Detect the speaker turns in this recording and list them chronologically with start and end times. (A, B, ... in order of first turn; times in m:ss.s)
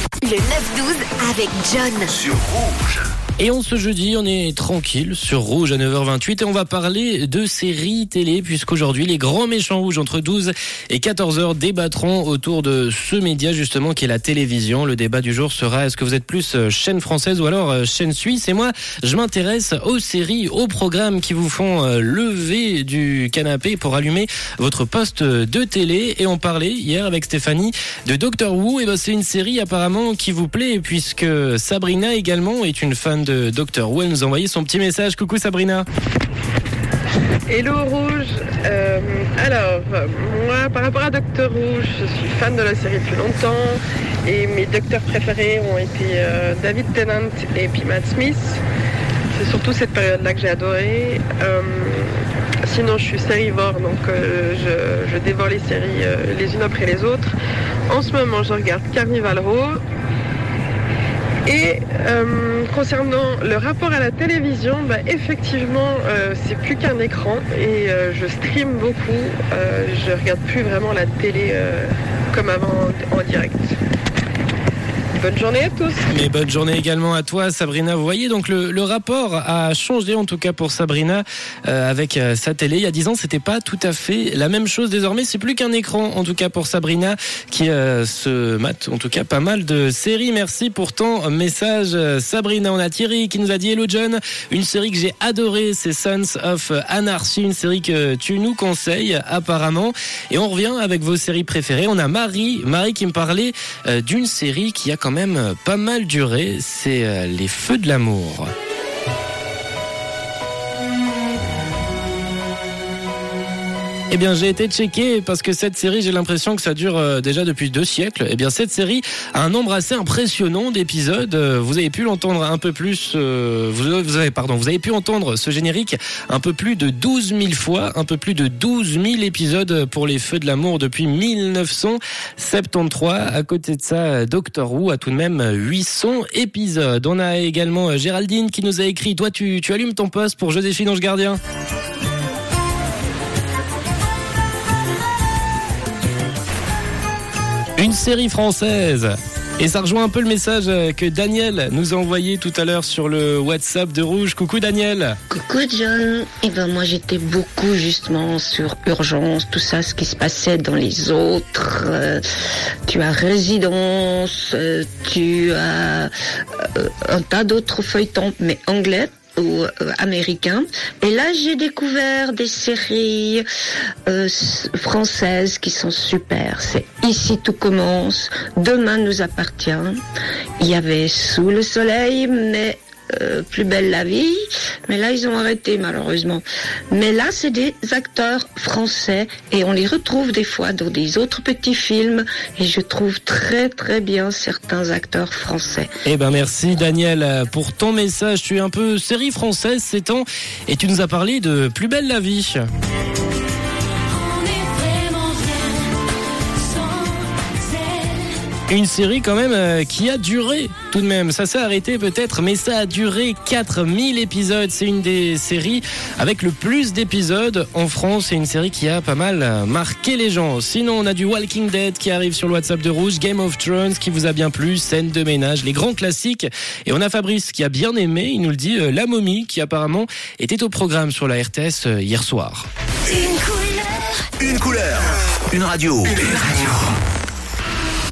0:00.2-0:02.2 A
0:02.2-0:03.0 B
0:03.4-0:35.8 C
0:37.5-0:48.6 D
0:49.3-0:57.3 D
0:57.9-0:59.8 D
1:01.4-1:13.7 D
1:15.2-1:16.0 D
1:16.1-1:48.5 C
1:54.1-2:21.4 C
2:27.8-2:35.2 C
2:35.3-2:42.2 E
2:42.8-2:53.4 E
2:54.1-3:00.0 E
3:00.6-3:15.9 E
3:16.0-3:22.6 C
3:24.1-3:26.0 A
3:26.5-3:28.4 A
3:28.7-3:52.6 C
3:53.1-3:54.1 A
3:54.4-3:56.9 B